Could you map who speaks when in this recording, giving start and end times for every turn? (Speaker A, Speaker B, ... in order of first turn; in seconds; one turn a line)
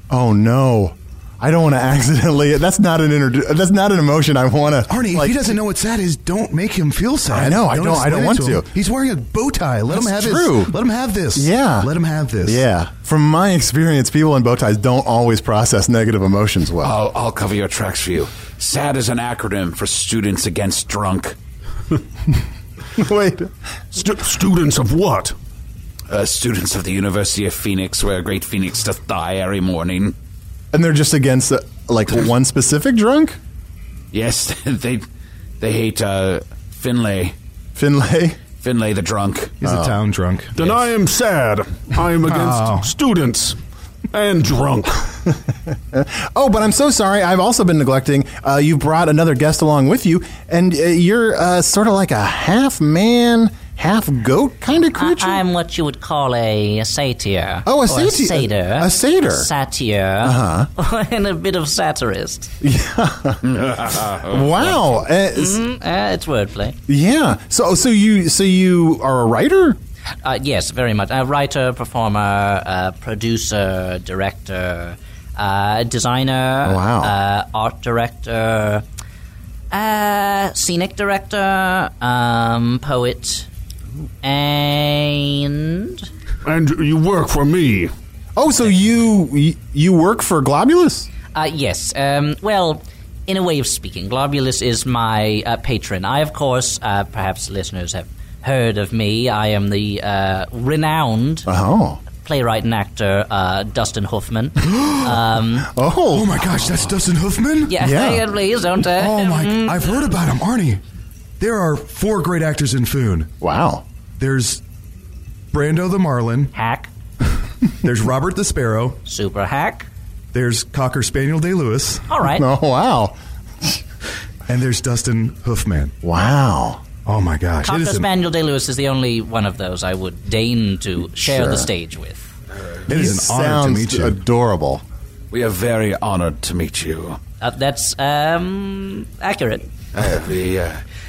Speaker A: 0.1-5.5
Speaker B: 4.9-12.6
Speaker A: 7.3-8.7
Speaker A: 9.9-10.8
Speaker A: 11.3-11.9
Speaker A: 12.4-17.0
Speaker C: 16.8-21.4
Speaker A: 23.0-23.5
Speaker D: 23.9-25.3
Speaker C: 26.1-30.1
Speaker A: 30.7-33.4
Speaker C: 34.1-35.0
Speaker C: 35.6-37.3
Speaker A: 37.8-38.4
Speaker C: 38.6-39.6
Speaker B: 39.6-40.5
Speaker A: 39.6-40.0
Speaker D: 40.6-43.6
Speaker B: 42.2-42.9
Speaker D: 44.1-45.1
Speaker A: 45.9-55.4
Speaker E: 55.0-62.5
Speaker A: 57.6-59.5
Speaker A: 60.2-60.7
Speaker A: 62.6-65.6
Speaker C: 63.4-64.8
Speaker E: 65.3-66.8
Speaker A: 66.9-69.8
Speaker E: 70.2-78.8
Speaker A: 76.6-77.1
Speaker E: 79.7-83.5
Speaker E: 84.2-86.1
Speaker D: 86.5-87.9
Speaker A: 88.4-91.1
Speaker E: 91.3-101.5
Speaker A: 101.5-102.0
Speaker E: 102.1-105.7
Speaker B: 104.6-105.2
Speaker A: 105.7-106.6
Speaker B: 106.1-107.8
Speaker E: 107.7-110.1
Speaker A: 107.8-108.2
Speaker B: 108.9-110.8
Speaker B: 111.4-113.3
Speaker A: 113.4-113.8
Speaker B: 114.2-114.6
Speaker B: 115.5-116.5
Speaker E: 116.5-116.9
Speaker B: 117.8-119.0
Speaker E: 119.1-119.9
Speaker B: 120.3-122.1
Speaker E: 122.1-122.5
Speaker A: 122.3-123.8
Speaker B: 124.5-125.9
Speaker A: 126.0-126.8
Speaker B: 127.0-128.1
Speaker E: 127.6-132.3
Speaker A: 131.2-131.7
Speaker B: 132.9-134.2
Speaker A: 132.9-134.8
Speaker C: 135.3-137.2
Speaker E: 137.4-139.7
Speaker C: 139.9-140.8